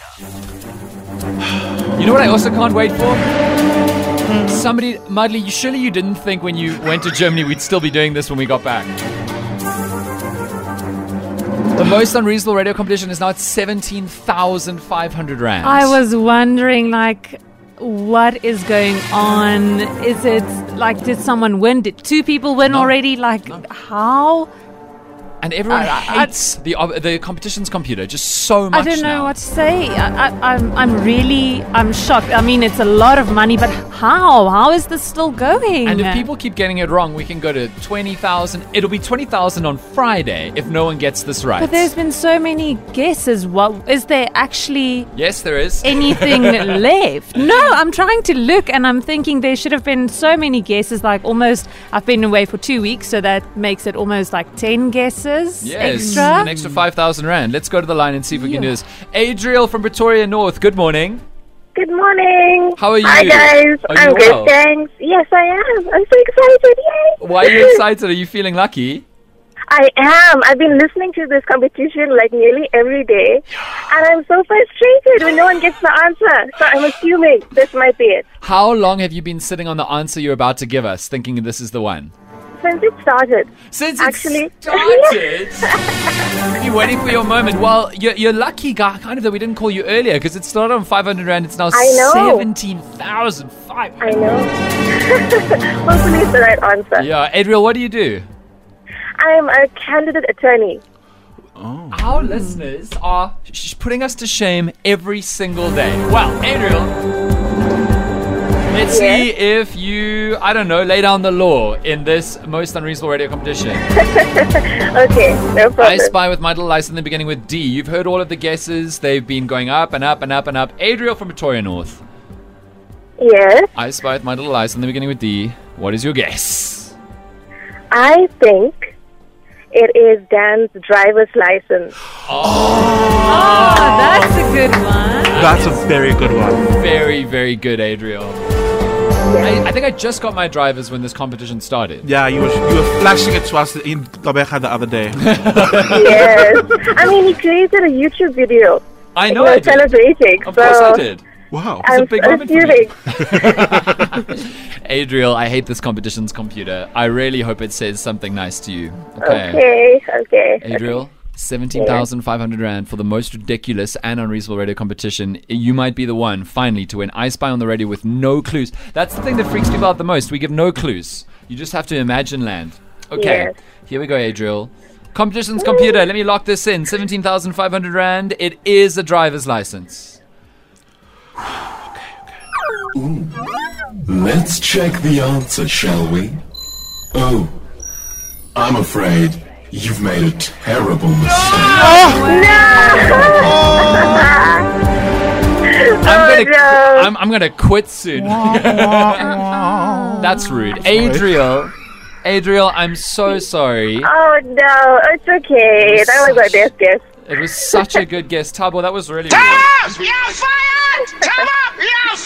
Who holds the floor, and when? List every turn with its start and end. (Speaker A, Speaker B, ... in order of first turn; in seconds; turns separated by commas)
Speaker A: 1.9-3.2, Speaker A: 4.4-8.9, Speaker A: 11.7-16.0, Speaker B: 15.6-24.5, Speaker A: 22.6-22.9, Speaker A: 25.4-29.3, Speaker B: 25.7-26.3, Speaker B: 28.7-36.3, Speaker A: 35.8-41.9, Speaker B: 41.6-45.1, Speaker A: 45.1-46.8, Speaker B: 45.8-56.5, Speaker A: 47.4-47.7, Speaker A: 55.6-61.2, Speaker B: 58.4-58.7, Speaker C: 61.7-67.8, Speaker A: 62.8-64.5, Speaker A: 67.2-69.0, Speaker C: 69.7-78.2, Speaker A: 78.4-82.1, Speaker C: 82.6-85.8, Speaker A: 83.7-85.8, Speaker A: 86.6-94.5, Speaker C: 91.7-92.5, Speaker C: 94.0-97.1, Speaker A: 97.0-98.2, Speaker C: 99.2-100.8, Speaker D: 101.5-102.2, Speaker A: 101.9-107.0, Speaker A: 108.7-113.9, Speaker C: 108.9-109.3, Speaker C: 114.0-116.1, Speaker A: 115.8-122.0, Speaker C: 123.2-123.7, Speaker A: 123.7-126.9, Speaker C: 127.9-128.9, Speaker C: 129.7-131.9, Speaker A: 132.2-134.2, Speaker D: 132.7-133.7, Speaker B: 133.2-135.5, Speaker A: 135.3-135.8, Speaker D: 135.3-136.6, Speaker A: 136.7-138.4, Speaker C: 139.3-139.6, Speaker A: 139.4-142.1, Speaker D: 142.0-145.2, Speaker A: 145.2-146.6, Speaker C: 145.9-151.0, Speaker A: 149.1-151.2, Speaker D: 151.5-151.9, Speaker A: 151.8-159.6, Speaker C: 151.8-153.5, Speaker C: 159.2-160.9, Speaker A: 160.6-180.2, Speaker C: 161.7-162.0, Speaker C: 173.2-173.5, Speaker C: 175.6-175.9, Speaker E: 182.9-183.3, Speaker E: 184.1-186.4, Speaker E: 187.1-187.5, Speaker E: 188.5-192.0, Speaker B: 191.8-193.1, Speaker C: 192.2-194.7, Speaker E: 193.3-193.8, Speaker C: 195.7-197.1, Speaker A: 196.0-199.6, Speaker D: 198.7-200.2, Speaker A: 200.2-204.1, Speaker C: 204.0-207.0, Speaker A: 205.8-206.7, Speaker A: 207.2-210.1, Speaker D: 209.9-210.3